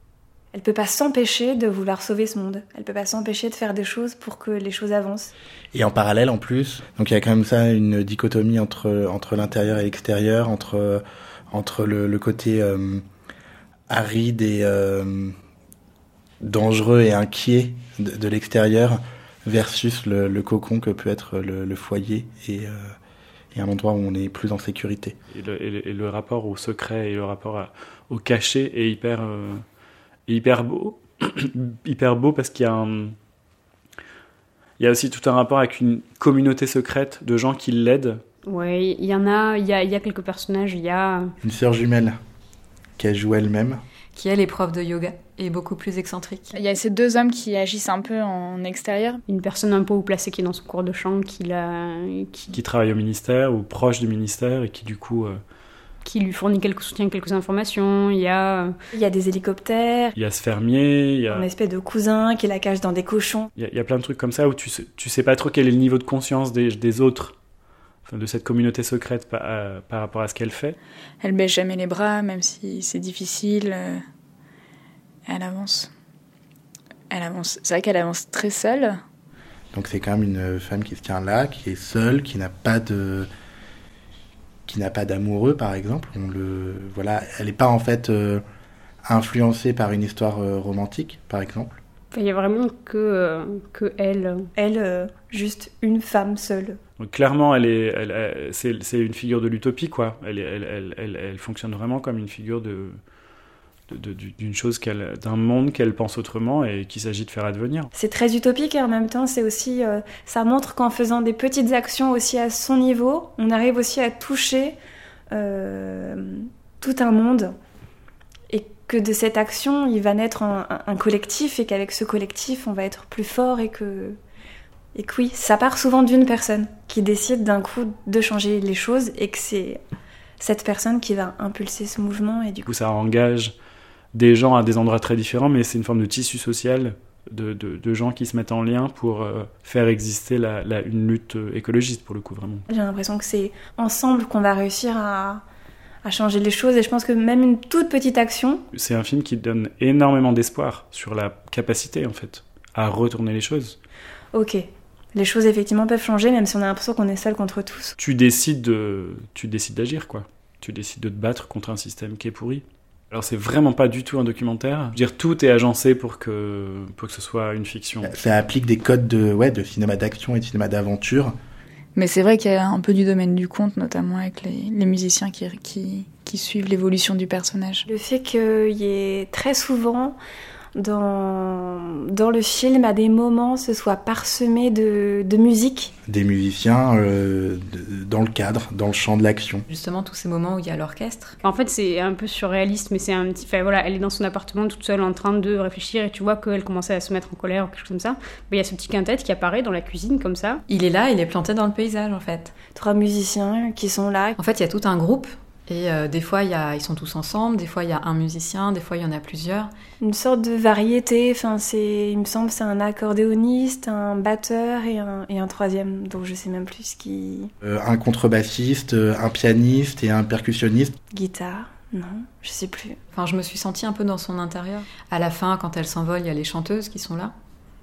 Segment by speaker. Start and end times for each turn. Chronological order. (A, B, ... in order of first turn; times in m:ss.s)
0:00.5-0:05.3 A
0:05.7-0:13.0 B
0:13.9-0:15.3 B
0:16.4-0:22.9 B
0:23.5-0:25.1 B
0:25.3-0:29.6 C
0:30.3-0:33.1 C
0:34.8-0:38.2 C
0:38.4-0:41.3 D
0:41.4-0:42.1 B
0:43.0-0:43.8 B
0:44.1-0:46.5 E
0:46.5-0:49.2 F
0:49.3-0:52.5 D
0:52.5-0:55.4 C
0:56.0-0:58.7 D
0:58.9-1:00.1 A
1:00.1-1:01.5 C
1:01.3-1:03.5 A
1:03.6-1:07.4 C
1:08.0-1:10.8 C
1:11.2-1:14.0 F
1:15.3-1:15.9 F
1:17.1-1:19.0 F
1:19.7-1:23.3 B
1:24.7-1:28.4 B
1:29.0-1:31.8 B
1:32.1-1:34.5 D
1:34.6-1:36.8 A
1:37.0-1:43.0 C
1:43.9-1:47.9 C
1:47.9-1:54.8 A
1:55.3-1:57.5 A
1:58.5-2:04.2 A
2:04.9-2:09.8 A
2:10.4-2:12.7 A
2:12.6-2:13.6 C
2:14.1-2:22.6 C
2:22.7-2:25.4 A
2:26.0-2:28.6 A
2:28.7-2:33.8 C
2:34.3-2:38.0 A
2:38.0-2:48.1 C
2:48.0-2:51.3 B
2:51.9-2:57.8 F
2:57.9-3:00.2 A
3:00.8-3:05.9 A
3:06.1-3:09.6 B
3:09.7-3:11.4 E
3:11.4-3:20.6 D
3:20.7-3:22.5 E
3:22.7-3:24.4 A
3:24.4-3:29.7 E
3:30.0-3:37.5 A
3:37.6-3:41.0 B
3:41.1-3:43.0 A
3:43.1-3:47.3 E